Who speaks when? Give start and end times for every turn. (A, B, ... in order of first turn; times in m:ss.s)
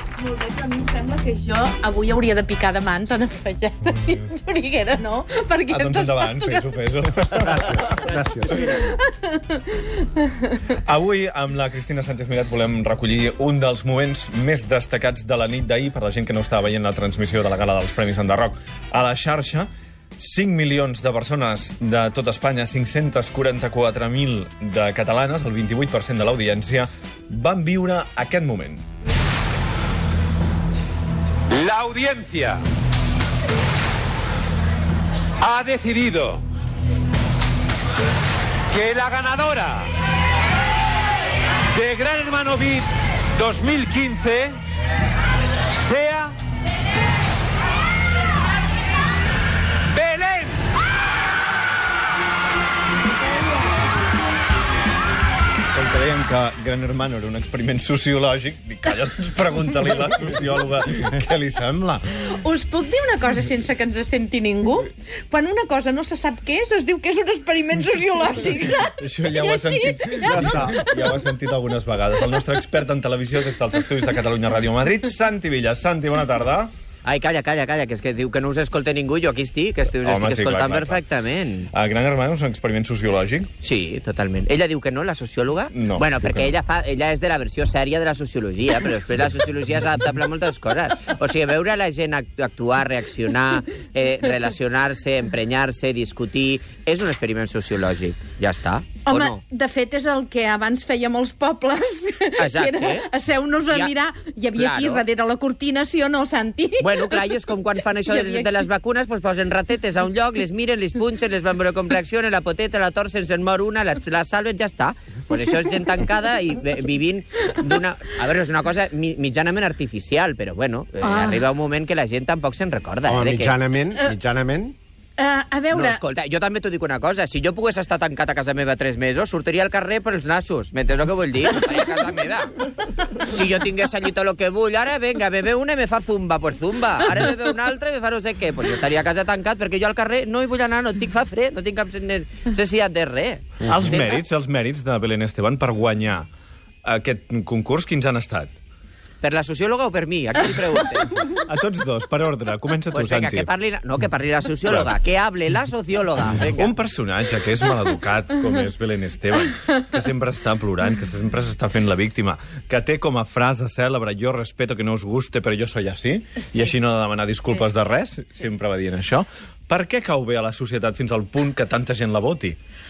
0:00.2-0:06.7 A
0:05.7-0:08.1 B
0:07.4-0:08.7 C
0:07.9-0:10.6 A
0:10.8-0:28.8 B
0:31.5-0:32.6 D
0:35.4-0:36.4 D
0:38.7-0:39.9 D
0:41.7-0:44.6 D
0:45.7-0:46.3 D
0:49.9-0:50.7 D
0:55.7-1:02.0 B
1:02.2-1:11.0 A
1:08.8-1:16.7 B
1:10.3-1:10.6 C
1:17.0-1:21.7 E
1:20.0-1:21.0 B
1:21.7-1:23.5 B
1:23.6-1:39.4 E
1:25.7-1:26.5 B
1:39.1-1:48.6 A
1:42.4-1:43.1 E
1:44.5-1:45.0 E
1:46.8-2:03.6 E
2:01.0-2:01.4 A
2:03.0-2:04.7 C
2:05.2-2:06.0 A
2:05.7-2:12.6 E
2:13.1-2:24.2 E
2:23.6-2:26.3 B
2:26.8-2:28.5 B
2:29.2-2:31.4 E
2:31.4-2:33.5 B
2:32.9-2:36.7 E
2:36.5-2:52.6 B